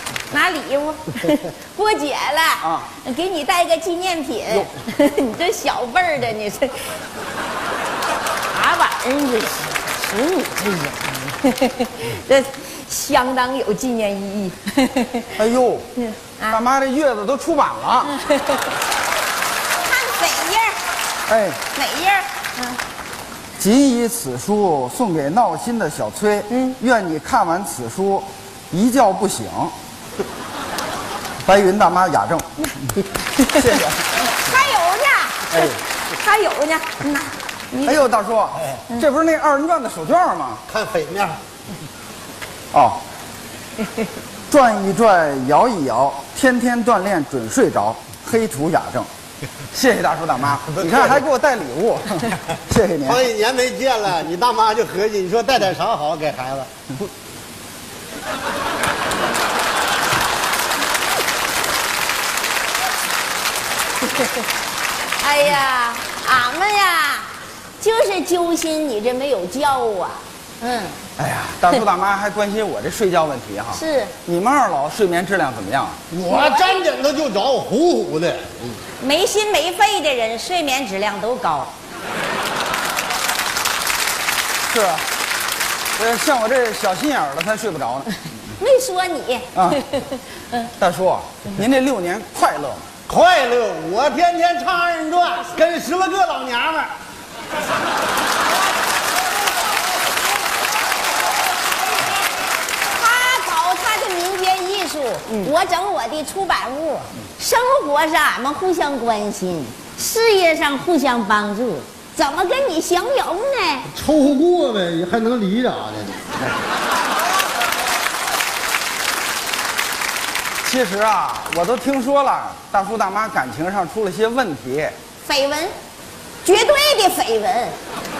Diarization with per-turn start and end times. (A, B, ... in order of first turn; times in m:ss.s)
0:00.3-0:07.0 A
0:02.6-0:02.9 B
0:08.5-0:15.3 A
0:15.4-0:15.9 B
0:16.0-0:16.6 A
0:16.5-0:18.2 B
0:18.2-0:18.6 A
0:19.8-0:20.8 A
0:21.3-0:21.6 B
0:21.7-0:22.8 A
0:23.6-0:29.7 B
0:26.5-0:26.8 A
0:31.4-0:34.1 B
0:34.2-0:38.0 A
0:35.5-0:35.8 C
0:37.8-0:40.6 B
0:40.7-0:41.4 C
0:42.7-0:43.0 B
0:44.5-0:49.1 B
0:49.7-0:53.2 B
0:50.8-0:51.2 C
0:53.0-0:57.1 C
1:05.2-1:11.0 A
1:11.2-1:16.0 B
1:13.7-1:14.1 A
1:16.1-1:18.8 C
1:16.3-1:16.8 A
1:19.0-1:21.7 A
1:24.7-1:25.1 B
1:26.0-1:28.2 B
1:28.6-1:30.0 A
1:29.5-1:29.8 B
1:30.8-1:32.8 B
1:33.1-1:36.9 C
1:42.9-1:53.9 A
1:53.9-1:56.3 C
2:00.6-2:04.9 B
2:05.2-2:05.7 A
2:06.4-2:07.8 A